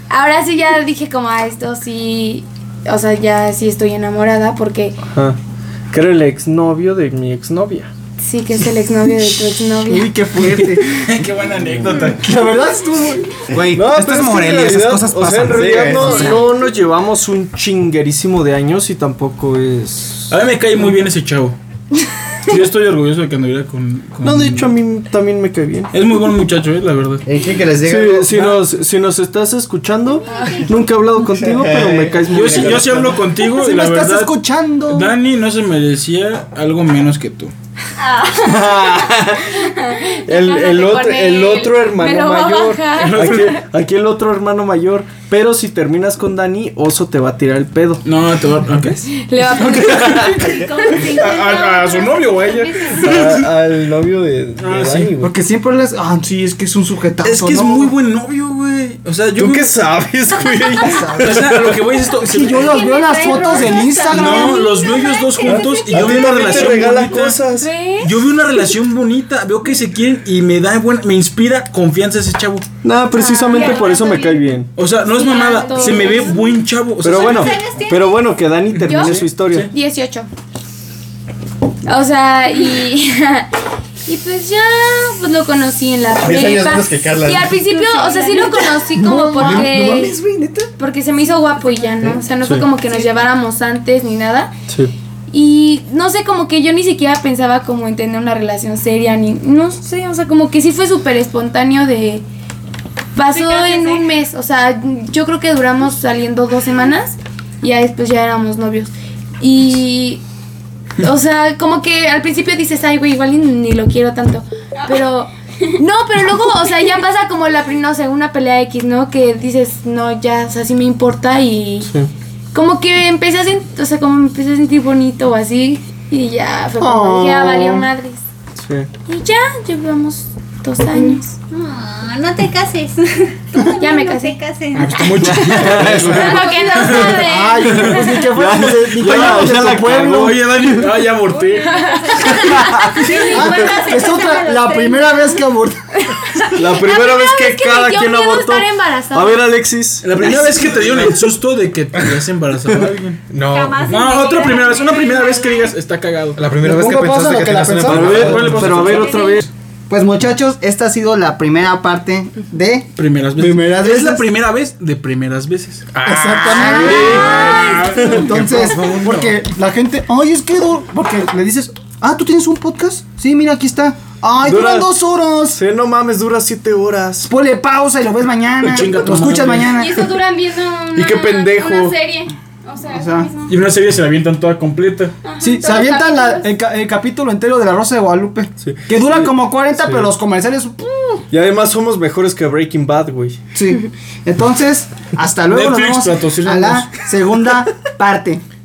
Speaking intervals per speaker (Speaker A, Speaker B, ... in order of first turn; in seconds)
Speaker A: 0.1-5.0, 8.2-10.2, 16.0-16.5, 30.3-30.7, 38.4-43.6, 49.1-51.1, 63.0-64.0, 67.4-68.2, 73.1-74.4, 75.0-76.5, 78.8-79.2, 79.7-80.3, 81.8-83.5, 84.0-90.2, 90.8-94.5, 95.3-102.2, 103.1-110.2, 111.0-121.9, 122.5-128.2, 129.1-131.3, 133.8-134.4, 135.3-137.8, 146.2-146.6
Speaker B: 5.0-5.4, 5.9-7.9, 13.7-20.3, 24.2-25.9, 27.8-33.2, 38.4-39.6, 40.2-48.0, 49.8-50.5, 53.0-55.3, 59.3-61.8, 65.4-67.8, 72.8-74.7, 77.0-79.7, 92.4-92.7, 94.7-94.9, 121.8-122.1, 128.6-128.9, 135.2-137.1, 137.6-140.8, 142.5-142.9, 146.5-150.7, 157.8-159.5, 166.5-168.3, 174.4-174.9, 175.5-177.3, 178.7-179.5, 180.9-182.0, 188.6-190.1, 191.3-193.4
Speaker C: 9.8-11.0, 12.1-13.4, 33.4-35.1, 55.2-57.9, 60.8-61.5, 62.2-64.6, 88.9-90.7, 126.8-127.9, 137.0-140.5, 143.3-146.0, 156.6-158.6, 159.9-164.2, 166.0-175.6, 177.2-180.0, 182.9-183.3, 185.4-191.2, 193.5-198.4
Speaker D: 10.4-12.4, 20.3-21.6, 22.5-24.7, 25.9-27.2, 32.3-34.3, 34.9-37.5, 42.9-43.6, 48.0-53.5, 54.6-55.1, 57.2-59.7, 61.2-67.4, 68.0-72.6, 74.8-77.7, 78.7-79.7, 134.7-138.2, 139.0-141.8, 150.0-153.2, 153.9-156.4, 158.0-159.5, 162.9-168.3, 178.7-179.7, 183.5-185.2, 195.5-196.9
Speaker E: 13.5-16.3, 135.8-136.2, 153.3-153.8, 156.4-159.1, 168.3-169.3
Speaker F: 15.5-16.2, 27.2-28.6, 31.3-32.5, 86.2-87.6
Speaker G: 30.1-30.7, 50.2-53.0, 73.5-74.1, 75.2-76.3, 77.0-78.2, 87.6-88.8, 103.3-104.1, 131.5-137.7, 141.3-145.4, 146.8-149.4, 153.5-155.8, 159.0-159.4, 166.8-167.8
Speaker H: 38.0-38.8, 62.7-66.9, 136.3-137.3, 143.0-144.1, 179.6-183.5, 185.2-186.5